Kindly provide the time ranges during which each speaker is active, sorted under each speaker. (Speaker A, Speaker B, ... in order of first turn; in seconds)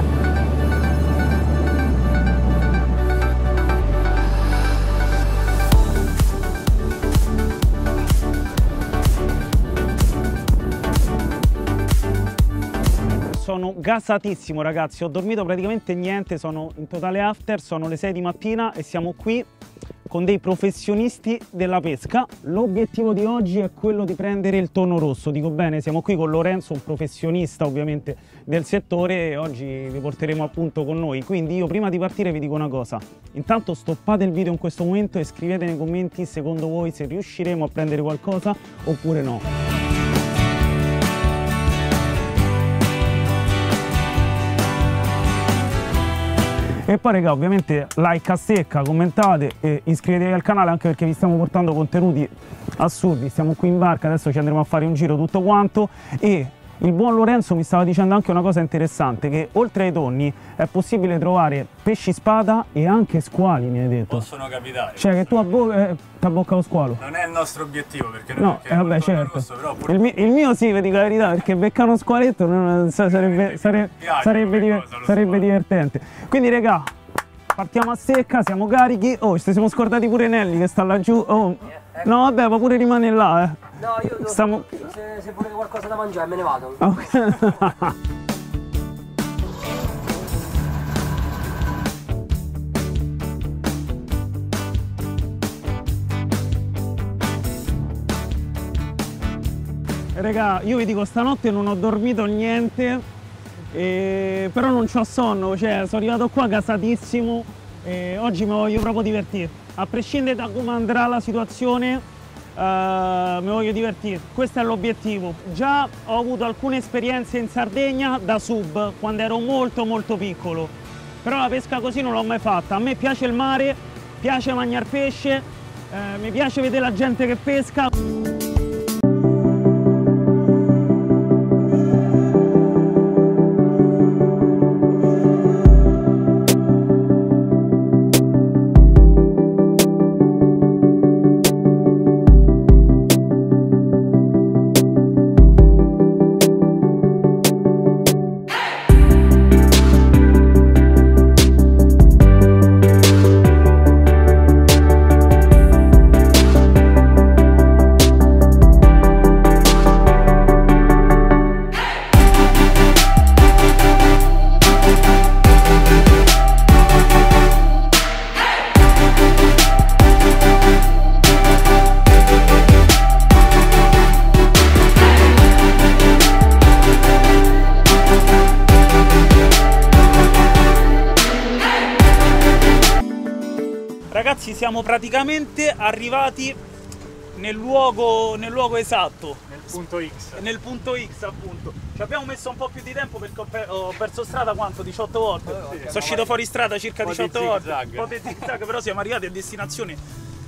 Speaker A: 13.2-19.5, 20.1-39.5, 46.9-64.3, 65.0-67.0, 68.4-76.9, 77.5-83.6, 84.2-84.9, 86.8-87.9, 100.2-103.0, 103.7-127.9, 184.1-186.6, 187.3-189.4, 190.3-200.0
Speaker B: 64.1-65.5, 67.0-70.1, 73.1-75.5, 189.5-190.4, 195.7-196.2, 197.0-198.5
Speaker C: 83.8-86.8, 195.4-196.5